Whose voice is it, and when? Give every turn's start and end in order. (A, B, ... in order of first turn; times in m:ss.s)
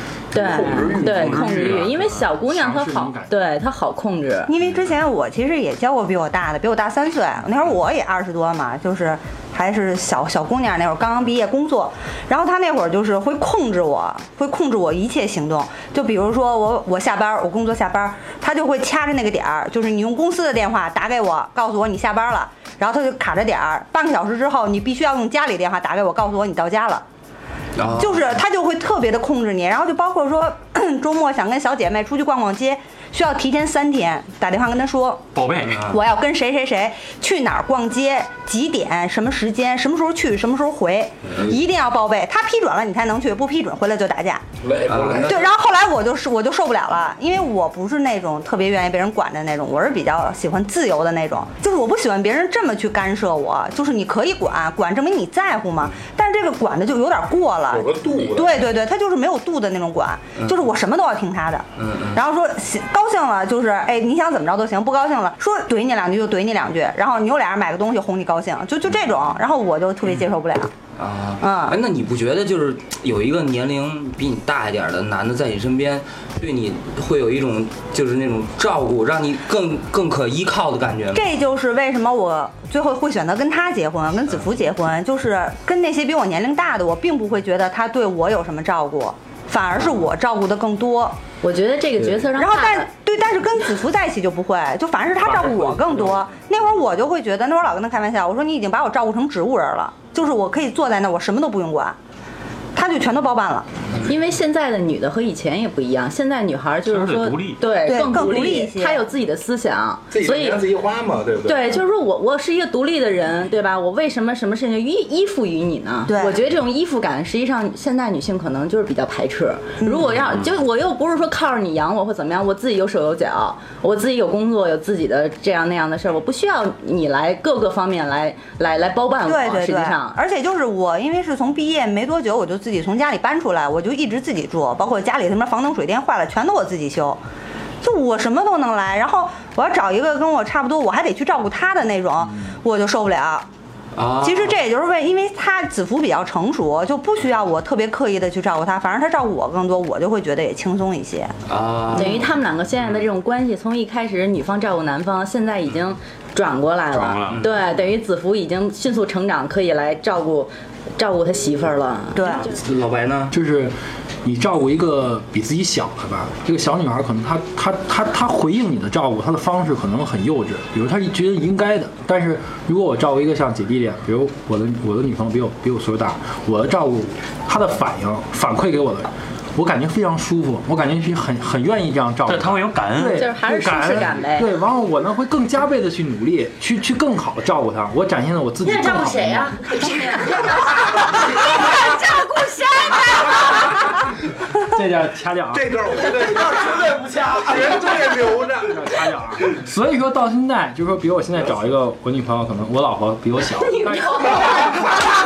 0:00.3-0:04.5 A
0:00.3-0:01.8 B
0:00.4-0:03.4 C
0:00.9-0:02.1 D
0:04.5-0:27.0 E
0:27.8-0:28.4 F
0:27.9-0:35.2 E
0:35.4-0:35.8 D
0:35.6-0:36.0 F
0:35.8-0:44.4 E
0:44.6-0:45.4 B
0:44.9-0:45.4 F
0:45.2-1:10.7 E
0:57.7-0:58.5 B
1:01.8-1:02.2 F
1:11.0-1:21.3 F
1:11.4-1:11.8 E
1:21.1-1:31.2 E
1:31.4-1:32.9 A
1:32.4-1:42.0 E
1:42.7-1:43.7 E
1:44.0-1:50.6 A
1:46.9-1:47.6 D
1:47.8-1:49.0 E
1:50.1-1:51.8 B
1:51.4-2:10.2 A
1:56.1-1:56.4 E
1:59.8-2:00.1 E
2:09.2-2:17.2 E
2:17.8-2:23.5 E
2:23.9-2:24.6 F
2:24.2-2:31.4 E
2:31.5-2:32.3 F
2:31.9-2:42.5 A
2:36.9-2:37.4 D
2:37.3-2:37.6 F
2:42.1-2:42.4 E
2:42.4-2:43.3 F
2:43.3-3:09.9 C
3:02.3-3:03.3 D
3:03.1-3:04.5 A
3:08.6-3:13.4 A
3:14.6-3:16.1 C
3:15.5-3:19.0 B
3:17.2-3:24.8 C
3:23.9-3:24.4 A